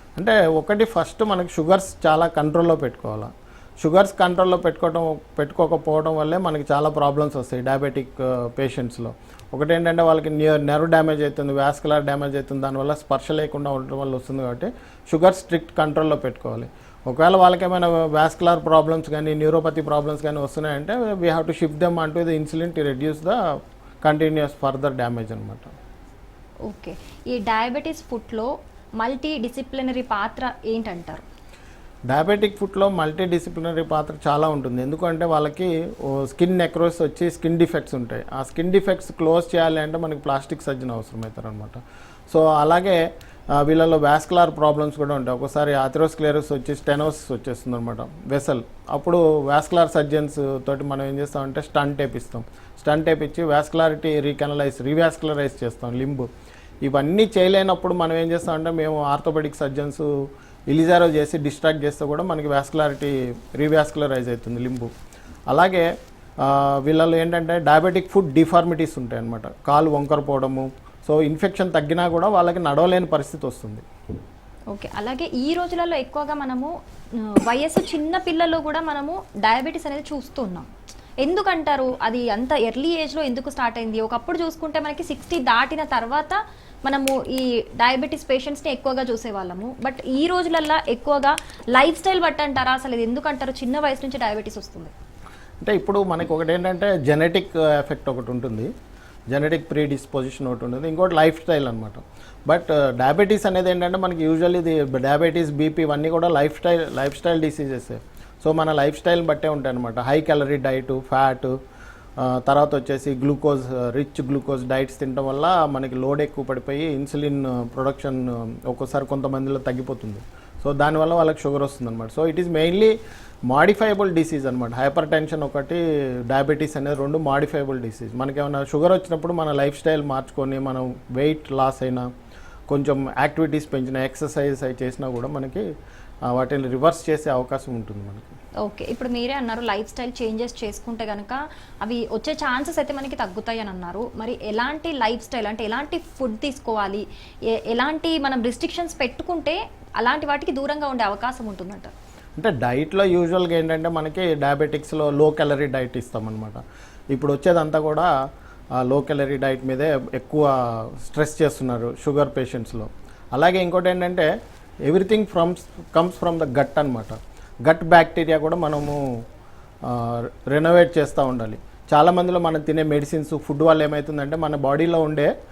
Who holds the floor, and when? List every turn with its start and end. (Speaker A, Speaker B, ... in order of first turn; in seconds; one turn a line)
Speaker A: 0.1-25.7
Speaker B: 26.7-31.2
Speaker A: 32.1-56.3
Speaker A: 56.8-64.9
Speaker A: 65.5-65.9
Speaker A: 66.4-73.8
Speaker B: 74.7-80.7
Speaker B: 81.2-94.9
Speaker A: 95.6-98.7
Speaker A: 99.3-111.5
Speaker A: 112.2-123.0
Speaker A: 123.5-132.1
Speaker A: 132.7-135.7
Speaker A: 136.2-138.3
Speaker B: 138.6-151.9
Speaker A: 152.4-156.6
Speaker A: 157.1-158.1
Speaker A: 158.8-164.3
Speaker A: 164.8-169.0
Speaker A: 169.8-175.3